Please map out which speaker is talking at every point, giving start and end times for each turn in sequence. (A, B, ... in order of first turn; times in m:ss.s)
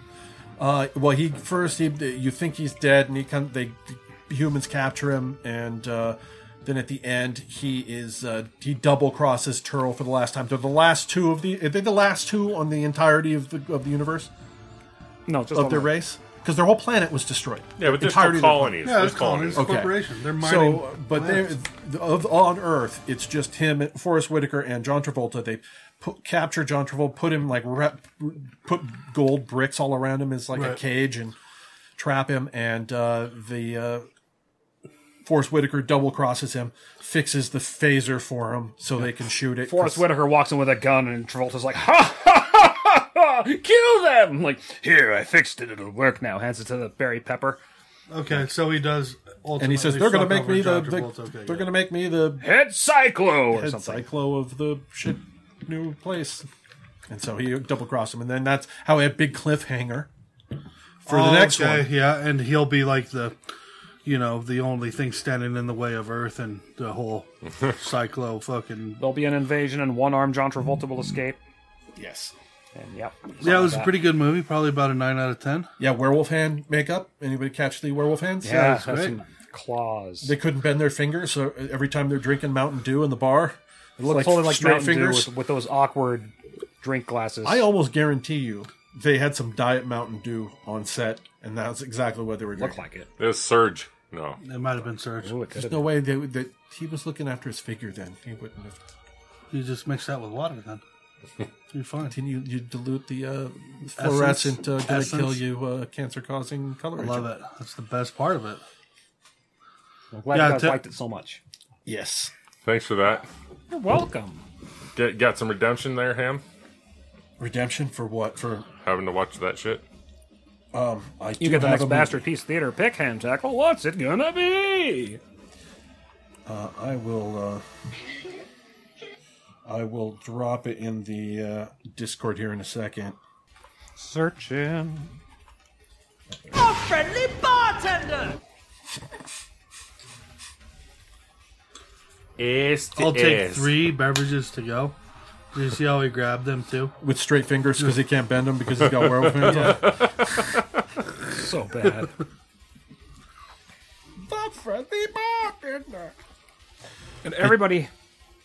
0:00.6-0:14.3 A
0:15.3-0:16.0 B
0:15.5-0:19.0 A
0:17.8-0:19.8 C
0:18.8-0:21.5 D
0:19.5-0:31.4 A
0:30.5-0:30.8 D
0:32.0-0:34.1 A
0:35.2-0:40.0 A
0:39.6-0:47.6 B
0:48.1-0:51.7 D
0:49.6-0:52.5 A
0:52.4-0:54.0 B
0:53.5-0:56.4 A
0:57.1-1:00.1 A
1:01.0-1:01.9 A
1:01.1-1:03.4 D
1:04.0-1:09.0 D
1:09.0-1:11.4 B
1:11.9-1:12.3 A
1:12.7-1:14.0 B
1:13.4-1:15.7 D
1:15.8-1:19.2 A
1:18.4-1:20.3 B
1:18.8-1:19.2 D
1:20.2-1:25.3 A
1:24.0-1:27.7 B
1:27.4-1:32.8 A
1:32.6-1:33.1 B
1:33.2-1:34.4 C
1:34.4-1:35.3 D
1:35.2-1:36.0 B
1:35.5-1:38.8 A
1:39.5-1:40.8 D
1:41.7-1:42.2 D
1:42.1-1:47.3 A
1:44.0-1:45.4 D
1:47.0-1:48.6 D
1:50.1-1:51.4 B
1:50.3-1:50.8 D
1:51.8-1:52.3 A
1:52.6-1:53.3 C
1:53.7-1:54.4 B
1:54.9-1:56.4 C
1:57.4-1:58.7 A
1:58.8-1:59.8 C
2:00.7-2:02.2 A
2:01.4-2:05.2 B
2:06.4-2:07.6 A
2:09.6-2:13.2 A
2:14.0-2:15.1 B
2:16.4-2:16.7 A
2:22.4-2:23.8 C
2:23.0-2:25.0 D
2:25.5-2:26.9 D
2:27.0-2:30.0 A
2:29.2-2:30.6 C
2:31.3-2:32.2 B
2:34.2-2:36.1 A
2:37.2-2:37.9 B